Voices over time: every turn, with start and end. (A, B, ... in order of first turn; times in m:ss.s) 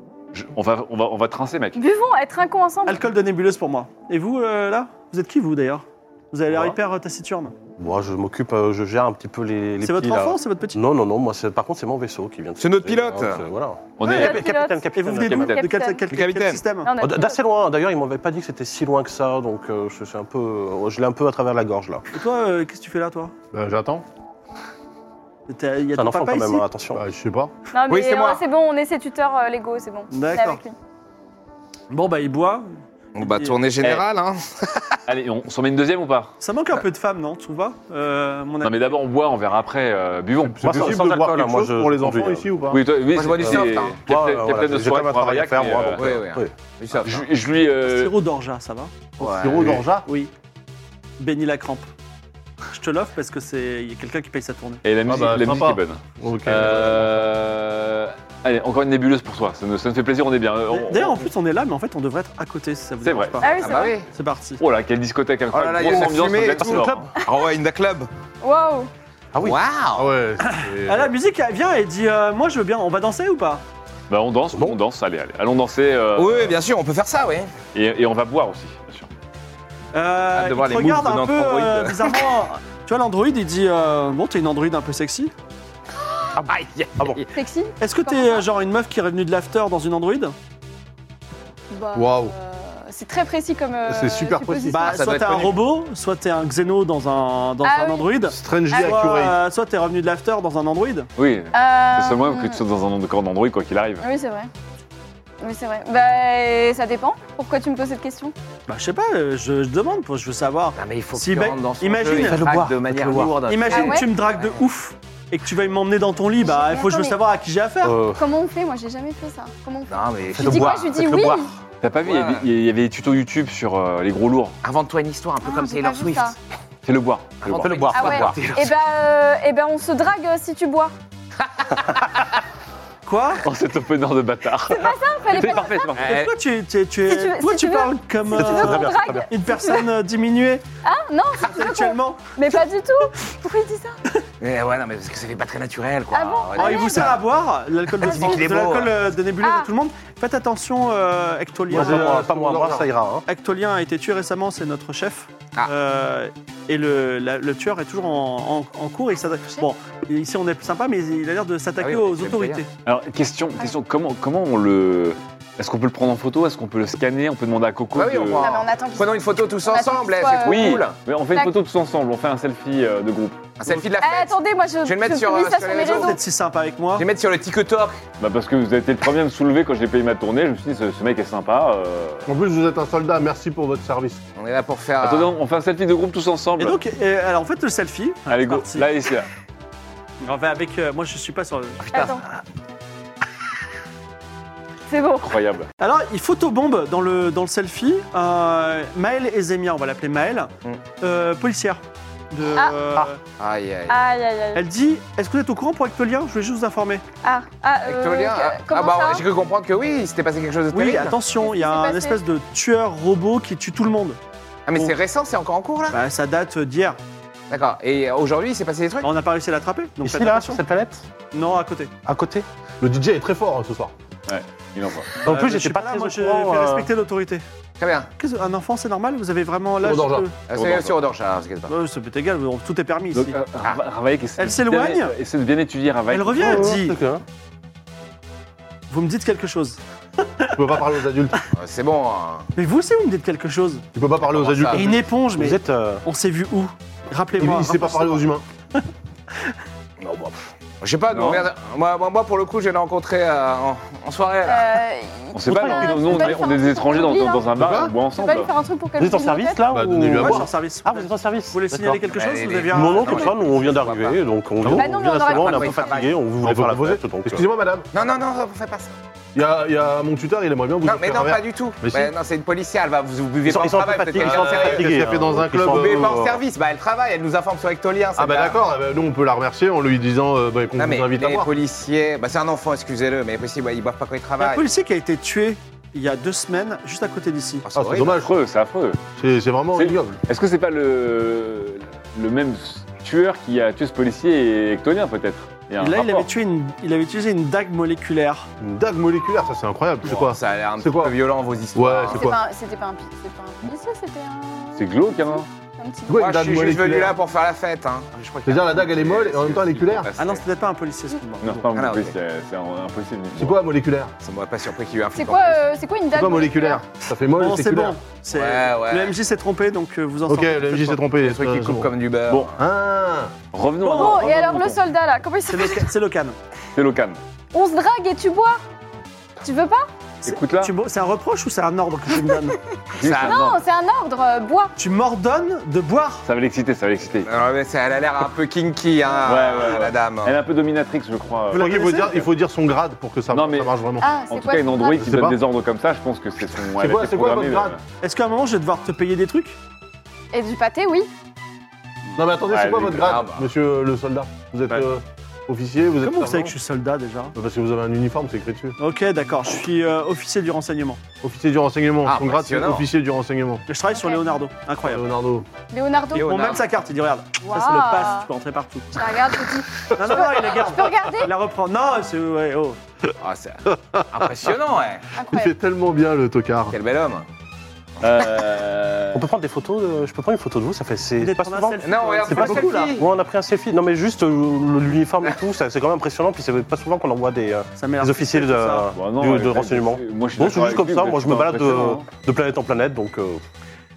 0:00.3-0:01.8 A
0:01.7-0:03.0 B
0:02.8-0:07.5 C
0:07.8-0:15.6 D
0:09.8-0:10.8 C
0:12.6-0:13.4 E
0:14.0-0:14.5 A
0:14.0-0:16.0 B
0:14.9-0:16.9 C
0:16.1-0:16.6 E
0:16.8-0:17.4 B
0:17.0-0:22.0 D
0:22.1-0:23.3 C
0:23.5-0:24.0 F
0:25.5-0:26.6 C
0:25.9-0:27.0 D
0:26.9-0:27.5 F
0:27.7-0:30.7 B
0:27.9-0:28.4 E
0:30.1-0:30.6 C
0:31.9-0:33.6 C
0:33.1-0:35.0 E
0:35.1-0:36.3 A
0:36.4-0:38.9 C
0:38.6-0:41.0 A
0:40.4-0:42.8 F
0:40.6-0:42.5 D
0:42.7-0:46.1 A
0:43.1-0:44.0 E
0:43.4-0:46.5 D
0:46.0-0:47.2 E
0:47.0-0:48.1 A
0:47.8-0:48.9 C
0:49.2-0:49.8 E
0:49.2-0:50.1 F
0:50.0-0:50.3 C
0:51.2-0:51.9 C
0:52.7-0:54.8 C
0:54.8-1:01.2 A
0:55.0-0:57.2 F
1:00.7-1:04.6 C
1:03.0-1:03.6 A
1:03.4-1:04.0 B
1:03.5-1:04.1 E
1:04.6-1:07.1 A
1:05.5-1:08.1 E
1:06.0-1:07.1 D
1:08.4-1:08.9 B
1:09.3-1:09.6 D
1:09.4-1:10.1 E
1:10.0-1:11.1 F
1:10.4-1:13.6 C
1:14.1-1:16.6 A
1:14.5-1:14.8 D
1:16.2-1:17.5 E
1:17.7-1:19.1 A
1:19.9-1:25.3 C
1:20.3-1:22.3 E
1:26.0-1:27.3 E
1:26.4-1:27.2 D
1:27.3-1:28.4 B
1:27.8-1:30.3 C
1:31.7-1:35.0 B
1:31.9-1:32.3 F
1:33.8-1:34.8 F
1:34.7-1:41.1 C
1:34.8-1:35.6 E
1:37.6-1:38.2 B
1:38.2-1:39.4 F
1:38.7-1:39.0 B
1:41.2-1:44.0 A
1:41.5-1:42.6 B
1:44.0-1:44.5 B
1:45.4-1:48.3 B
1:48.7-1:52.5 C
1:50.8-1:54.5 E
1:52.1-1:53.4 D
1:53.4-1:58.0 C
1:53.7-1:54.1 B
1:56.4-1:57.2 B
1:57.8-1:58.2 D
1:58.1-2:01.5 B
1:59.9-2:01.4 E
2:00.4-2:01.3 D
2:01.8-2:04.5 A
2:02.0-2:02.4 E
2:04.6-2:06.3 E
2:05.4-2:06.3 B
2:06.8-2:07.8 A
2:07.4-2:08.7 E
2:07.5-2:08.4 D
2:07.9-2:10.9 B
2:11.5-2:12.2 E
2:13.0-2:13.4 C
2:13.4-2:16.1 A
2:14.7-2:16.0 B
2:16.0-2:16.3 E
2:16.0-2:20.6 C
2:17.1-2:19.9 B
2:18.3-2:19.3 D
2:20.8-2:24.0 B
2:21.4-2:22.6 C
2:24.4-2:27.2 E
2:26.1-2:27.2 B
2:26.5-2:32.2 C
2:28.0-2:28.9 E
2:28.0-2:28.4 B
2:29.4-2:29.7 B
2:31.7-2:32.8 F
2:31.7-2:33.2 D
2:33.3-2:42.7 C
2:41.8-2:42.6 E
2:42.8-2:48.5 A
2:47.9-2:50.9 E
2:48.4-2:51.5 B
2:50.4-2:53.4 A
2:53.6-2:56.2 E
2:54.0-2:56.2 B
2:55.8-2:57.0 C
2:56.9-2:58.0 E
2:58.2-3:02.3 A
3:02.2-3:04.2 F
3:04.4-3:05.3 E
3:05.0-3:06.8 A
3:06.6-3:08.9 C
3:08.3-3:09.3 A
3:10.2-3:12.1 C
3:11.9-3:12.2 B
3:14.9-3:15.4 B
3:15.2-3:15.7 A
3:15.8-3:23.2 C
3:23.4-3:24.0 E
3:23.9-3:24.6 B
3:24.5-3:27.0 C
3:27.2-3:29.2 B
3:27.8-3:31.2 E
3:30.7-3:34.2 C
3:31.4-3:32.2 B
3:34.7-3:36.0 E
3:35.9-3:37.0 C
3:37.5-3:39.1 E
3:39.0-3:40.6 C
3:40.0-3:41.1 D
3:41.3-3:41.9 C
3:42.0-3:42.4 D
3:42.8-3:43.9 F
3:44.3-3:45.2 A
3:45.2-3:46.9 D
3:45.2-3:47.4 C
3:47.8-3:48.1 E
3:48.2-3:50.3 C
3:49.8-3:50.3 F
3:50.5-3:51.7 E
3:50.5-3:51.0 A
3:51.7-3:53.4 C
3:53.1-3:56.7 A
3:54.4-3:55.2 C
3:56.1-3:57.0 C
3:56.4-3:57.2 D
3:58.9-4:00.6 C
4:00.6-4:01.4 F
4:01.5-4:02.5 E
4:02.6-4:03.8 C
4:03.9-4:04.9 F
4:04.3-4:04.9 E
4:04.7-4:08.3 C
4:05.4-4:06.0 D
4:07.4-4:08.4 F
4:10.0-4:14.8 E
4:11.1-4:11.4 A
4:14.5-4:17.5 B
4:15.3-4:18.5 A
4:15.5-4:16.4 D
4:17.5-4:17.9 F
4:18.1-4:19.8 B
4:19.0-4:22.0 D
4:19.7-4:20.5 F
4:20.2-4:23.4 C
4:22.1-4:24.2 E
4:22.7-4:27.4 D
4:24.6-4:24.9 F
4:24.7-4:26.0 B
4:25.2-4:26.1 E
4:26.4-4:27.9 F
4:27.9-4:28.9 E
4:29.3-4:32.1 F
4:30.8-4:34.9 E
4:33.4-4:36.1 D
4:34.2-4:36.4 F
4:35.6-4:38.6 E
4:38.2-4:41.5 F
4:40.8-4:44.6 E
4:44.4-4:47.7 C
4:47.7-4:48.2 E
4:47.7-4:48.3 F
4:48.2-4:49.0 A
4:49.2-4:50.2 F
4:49.7-4:56.3 A
4:55.8-4:58.5 C
4:58.6-5:01.2 F
5:00.0-5:02.3 E
5:01.7-5:02.4 F
5:02.1-5:06.2 B
5:04.8-5:05.5 A
5:06.1-5:07.2 F
5:06.1-5:10.4 E
5:08.4-5:10.1 F
5:10.2-5:11.7 C
5:11.4-5:13.6 A
5:11.7-5:12.1 E
5:13.4-5:14.1 F
5:14.2-5:15.6 E
5:15.1-5:16.8 B
5:16.1-5:18.0 F
5:17.3-5:21.0 C
5:18.3-5:19.1 E
5:20.3-5:21.9 F
5:21.2-5:22.6 E
5:22.6-5:23.3 F
5:23.5-5:24.8 A
5:23.8-5:24.3 C
5:23.8-5:25.8 B
5:25.5-5:26.4 C
5:26.7-5:27.2 A
5:27.5-5:28.6 B
5:29.4-5:29.9 B
5:30.2-5:32.6 C
5:30.2-5:30.7 A
5:32.9-5:33.6 A
5:33.0-5:33.4 E
5:33.2-5:34.7 B
5:34.8-5:36.2 C
5:36.2-5:37.3 A
5:37.2-5:40.3 E
5:39.2-5:42.3 A
5:41.5-5:44.1 F
5:41.5-5:42.0 C
5:43.3-5:43.7 A
5:44.0-5:45.1 B
5:44.3-5:47.8 A
5:45.0-5:45.4 F
5:46.8-5:47.8 F
5:48.0-5:49.6 C
5:50.3-5:51.1 B
5:52.2-5:56.5 F
5:52.5-5:53.1 A
5:53.0-5:53.5 E
5:56.0-5:57.3 C
5:57.3-5:58.8 F
5:58.8-6:01.0 C
6:01.2-6:03.6 F
6:02.0-6:02.9 E
6:03.7-6:05.1 C
6:03.9-6:04.4 B
6:04.8-6:05.4 F
6:05.7-6:06.5 B
6:06.1-6:06.7 E
6:06.1-6:09.1 C
6:07.4-6:08.3 B
6:08.9-6:11.3 B
6:09.8-6:12.8 C
6:13.2-6:15.1 E
6:13.7-6:14.1 F
6:15.1-6:15.5 B
6:15.3-6:16.8 F
6:16.7-6:17.2 E
6:18.0-6:19.2 A
6:18.0-6:18.4 E
6:19.1-6:33.4 D
6:21.2-6:23.0 C
6:21.8-6:23.1 E
6:27.8-6:28.9 C
6:28.9-6:32.0 A
6:31.7-6:32.0 C